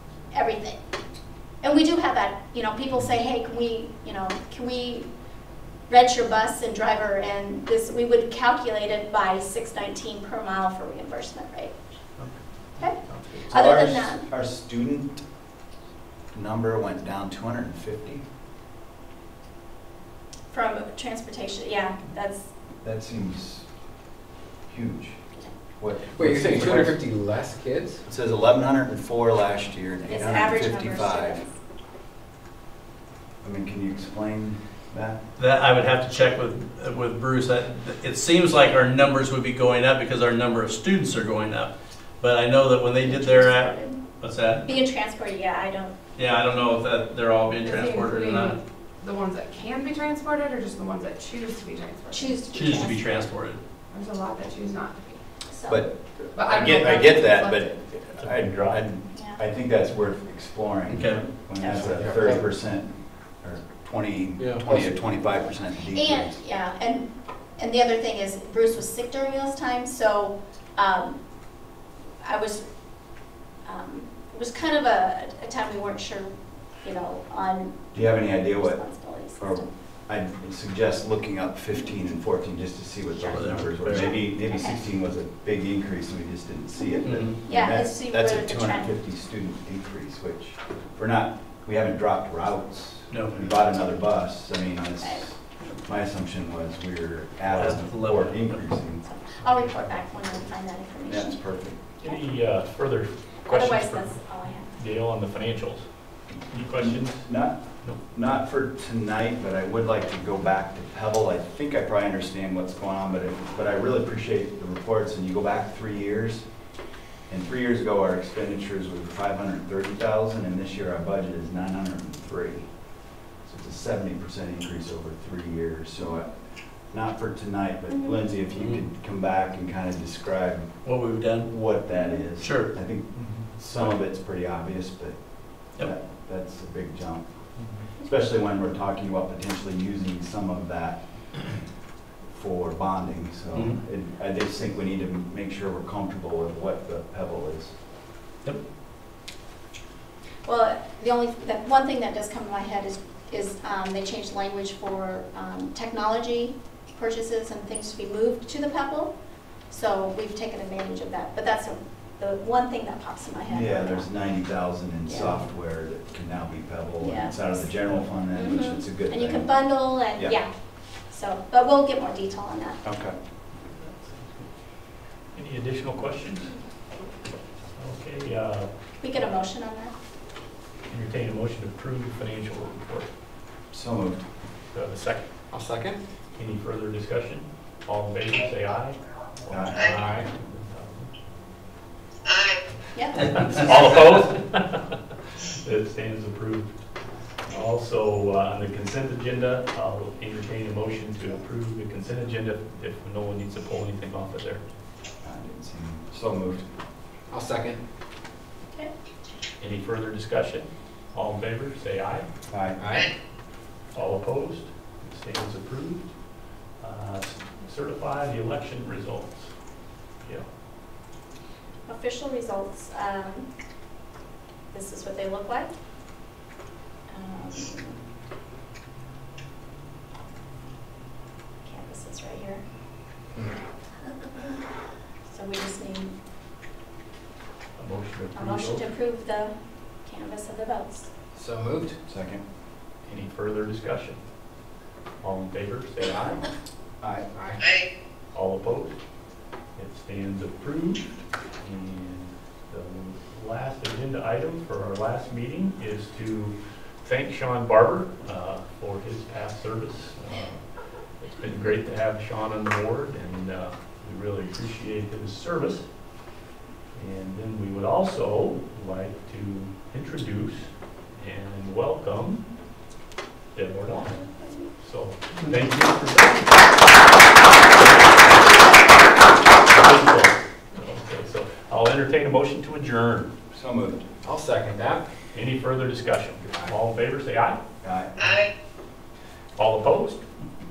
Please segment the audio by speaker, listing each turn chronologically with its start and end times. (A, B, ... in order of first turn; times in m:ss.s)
0:00.3-0:00.8 A
0:01.6-0:05.1 A
0:05.9-0:11.7 A
0:12.2-0:13.4 B
0:12.8-0:14.2 A
0:13.5-0:15.2 C
0:16.3-0:18.2 C
0:20.5-0:22.5 A
0:22.8-0:23.6 C
0:24.7-0:25.2 C
0:25.8-0:27.0 C
0:26.1-0:28.0 D
0:28.1-0:31.4 C
0:30.1-0:31.5 A
0:33.4-0:35.2 C
0:35.4-0:44.6 E
0:43.0-0:44.0 A
0:44.6-0:46.0 A
0:46.2-0:48.6 E
0:47.6-0:52.4 F
0:52.1-0:53.2 A
0:52.5-0:53.6 E
0:53.9-0:55.2 F
0:55.5-0:55.9 A
0:55.7-1:06.4 C
0:56.3-0:57.8 F
0:58.2-0:58.8 B
0:59.1-0:59.4 A
1:00.9-1:01.2 E
1:01.6-1:02.0 A
1:01.7-1:02.4 D
1:05.9-1:11.2 A
1:12.2-1:12.6 A
1:13.6-1:19.6 A
1:17.9-1:18.8 C
1:19.4-1:39.0 C
1:23.2-1:24.8 A
1:23.3-1:24.1 E
1:26.8-1:28.9 A
1:27.0-1:27.4 E
1:33.1-1:33.4 E
1:37.5-1:38.6 E
1:39.0-1:41.4 A
1:39.4-1:40.4 B
1:41.1-1:41.8 C
1:42.0-1:48.0 B
1:43.5-1:44.7 A
1:46.7-1:56.4 C
1:57.3-2:02.7 C
2:03.4-2:06.4 C
2:06.9-2:10.8 C
2:07.9-2:08.2 A
2:10.8-2:11.5 E
2:11.5-2:17.3 C
2:11.9-2:12.2 A
2:12.4-2:12.8 E
2:13.1-2:13.9 B
2:18.0-2:21.0 C
2:22.3-2:27.7 C
2:30.4-2:39.1 A
2:39.7-2:44.1 A
2:43.5-2:49.5 C
2:45.1-2:45.4 A
2:47.0-2:47.6 A
2:48.3-2:50.5 A
2:51.0-2:52.8 A
2:52.8-2:53.1 C
2:53.7-2:54.5 B
2:55.3-2:56.6 B
2:57.8-2:58.7 B
2:59.0-2:59.9 A
3:00.9-3:03.1 B
3:03.7-3:04.2 C
3:04.7-3:05.3 B
3:05.5-3:06.0 D
3:06.4-3:11.1 B
3:09.5-3:09.9 C
3:09.9-3:10.3 D
3:12.9-3:13.4 A
3:13.2-3:14.9 B
3:15.4-3:16.8 B
3:17.5-3:24.6 B
3:25.2-3:26.6 C
3:27.3-3:27.8 D
3:29.6-3:32.3 B
3:32.5-3:32.8 C
3:32.8-3:33.1 D
3:33.9-3:36.1 B
3:36.8-3:39.5 B
3:41.9-3:43.5 A
3:44.7-3:45.7 A
3:47.1-3:48.0 A
3:51.6-3:52.6 A
3:55.3-3:56.1 A
3:57.8-3:58.8 B
3:58.4-4:01.1 A
4:01.4-4:02.0 D
4:02.1-4:02.4 C
4:03.0-4:04.2 B
4:05.2-4:06.5 B
4:07.0-4:07.3 C
4:07.3-4:07.6 D
4:08.3-4:09.0 B
4:09.8-4:20.7 B
4:21.2-4:25.9 B
4:26.9-4:32.4 B
4:33.6-4:34.2 B
4:34.8-4:36.7 B
4:37.8-4:38.8 B
4:39.7-4:43.3 B
4:43.5-4:44.1 C
4:44.2-4:45.1 D
4:45.3-4:47.6 B
4:46.4-4:46.7 D
4:47.8-4:48.5 C
4:49.6-4:50.2 B